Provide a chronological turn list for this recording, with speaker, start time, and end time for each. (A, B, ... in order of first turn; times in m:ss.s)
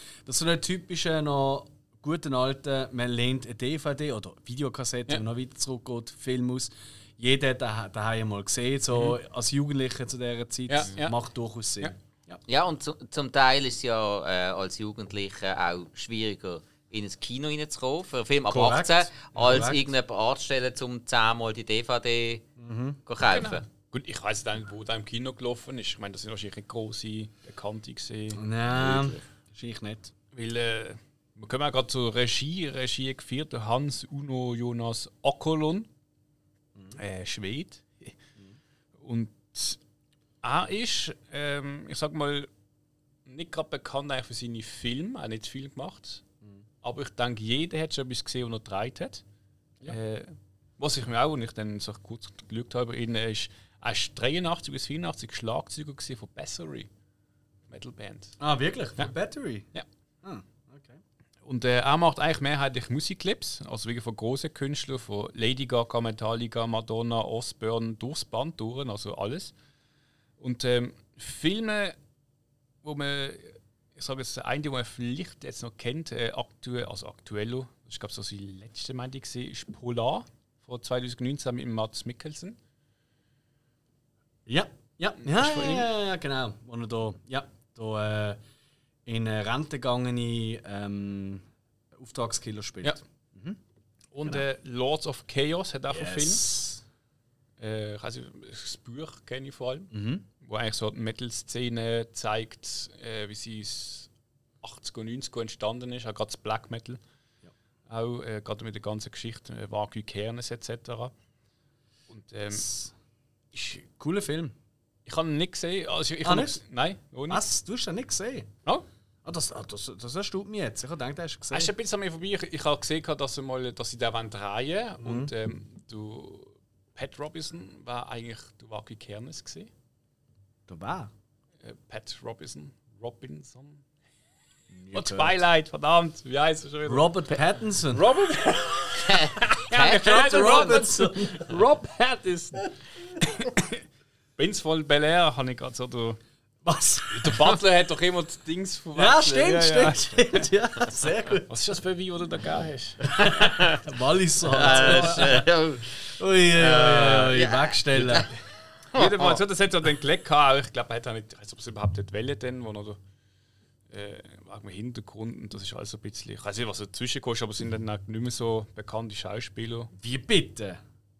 0:00.2-0:12.4 A
0:10.7-0:11.2 B
0:12.5-0:22.4 C
0:18.5-0:19.9 A
0:22.6-0:23.0 A
0:23.0-0:23.6 C
0:23.2-0:28.4 B
0:28.3-0:30.1 A
0:28.7-0:29.2 C
0:30.3-0:35.9 B
0:37.0-0:38.1 B
0:39.0-0:39.8 B
0:40.4-0:42.5 B
0:43.2-0:46.2 B
0:46.8-0:49.2 B
0:49.8-0:56.9 B
0:57.7-0:58.4 B
0:58.4-0:59.7 A
1:00.2-1:01.0 A
1:01.4-1:09.5 B
1:10.4-1:12.0 B
1:12.8-1:22.6 B
1:24.5-1:28.4 A
1:25.2-1:25.9 B
1:29.0-1:33.6 A
1:34.1-1:36.5 B
1:35.9-1:36.8 A
1:37.6-1:39.9 B
1:39.9-1:40.2 A
1:40.4-1:44.1 B
1:44.6-1:47.0 B
1:47.9-1:51.1 B
1:52.1-1:52.7 B
1:52.5-1:52.9 A
1:53.7-1:54.5 A
1:55.0-1:57.4 B
1:56.2-1:56.6 A
1:57.3-1:58.5 A
1:59.2-2:01.7 A
2:01.5-2:09.7 B
2:05.0-2:05.3 A
2:10.7-2:11.1 A
2:11.6-2:13.8 B
2:14.7-2:15.4 A
2:14.9-2:23.8 B
2:16.8-2:18.0 A
2:19.0-2:20.8 C
2:20.0-2:21.6 A
2:24.4-2:26.2 B
2:26.6-2:27.6 A
2:27.1-2:30.0 B
2:28.9-2:31.5 A
2:31.5-2:33.4 B
2:33.0-2:35.5 A
2:33.4-2:33.8 C
2:34.5-2:38.3 C
2:34.5-2:35.4 B
2:36.1-2:38.3 A
2:38.9-2:39.4 C
2:38.9-2:43.0 B
2:43.9-2:49.9 B
2:50.0-2:50.8 A